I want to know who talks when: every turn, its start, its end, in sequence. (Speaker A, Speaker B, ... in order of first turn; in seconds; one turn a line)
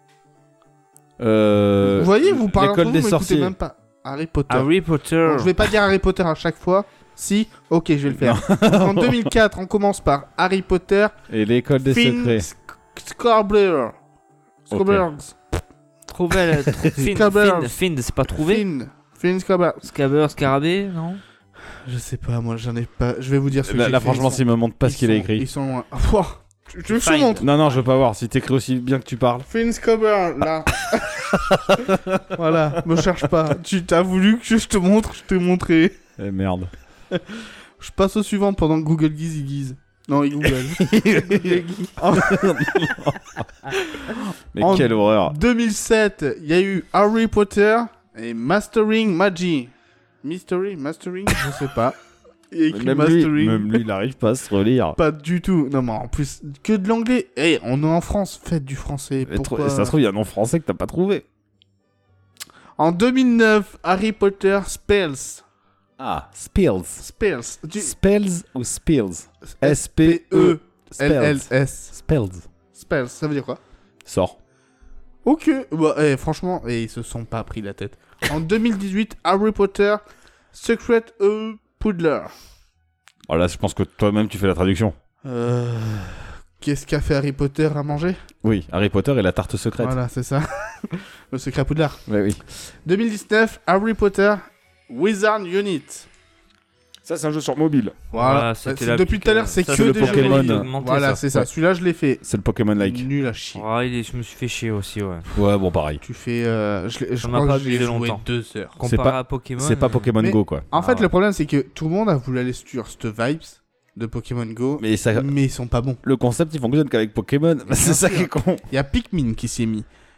Speaker A: 1.2-3.5
Speaker B: 1.8-4.7
Speaker C: 4.5-5.5
Speaker B: 5.2-11.2
Speaker A: 8.1-9.3
Speaker A: 11.3-12.5
Speaker B: 11.8-13.9
Speaker B: 14.7-15.3
Speaker A: 14.7-15.1
Speaker C: 16.1-18.6
Speaker B: 16.9-19.8
Speaker C: 19.8-21.2
Speaker B: 21.8-27.4
Speaker A: 23.6-25.5
Speaker C: 26.9-27.8
Speaker A: 27.4-29.5
Speaker B: 29.5-36.0
Speaker A: 31.3-32.3
Speaker A: 36.2-36.7
Speaker B: 37.1-42.9
Speaker A: 40.8-45.4
Speaker B: 43.7-49.7
Speaker B: 50.2-52.0
Speaker B: 52.5-53.8
Speaker A: 52.7-55.0
Speaker B: 55.0-60.0
Speaker A: 59.3-61.2
Speaker B: 62.8-65.4
Speaker A: 66.0-67.0
Speaker B: 67.0-67.9
Speaker A: 67.8-72.5
Speaker B: 69.6-71.9
Speaker B: 72.8-73.6
Speaker A: 74.0-74.4
Speaker B: 75.2-80.0
Speaker B: 80.5-82.3
Speaker A: 83.3-85.0
Speaker B: 85.2-88.2
Speaker A: 88.4-90.0
Speaker B: 89.8-92.0
Speaker A: 92.1-92.4
Speaker B: 92.5-96.1
Speaker A: 97.0-98.0
Speaker B: 98.1-102.2
Speaker C: 98.1-101.2
Speaker A: 99.7-100.7
Speaker A: 102.2-103.1
Speaker B: 102.8-103.6
Speaker C: 103.5-105.3
Speaker A: 105.3-106.0
Speaker B: 106.0-108.7
Speaker C: 107.2-108.2
Speaker C: 108.8-110.1
Speaker A: 108.8-110.7
Speaker B: 110.2-116.0
Speaker C: 110.7-111.1
Speaker A: 114.8-115.3
Speaker A: 116.0-118.7
Speaker B: 117.7-119.9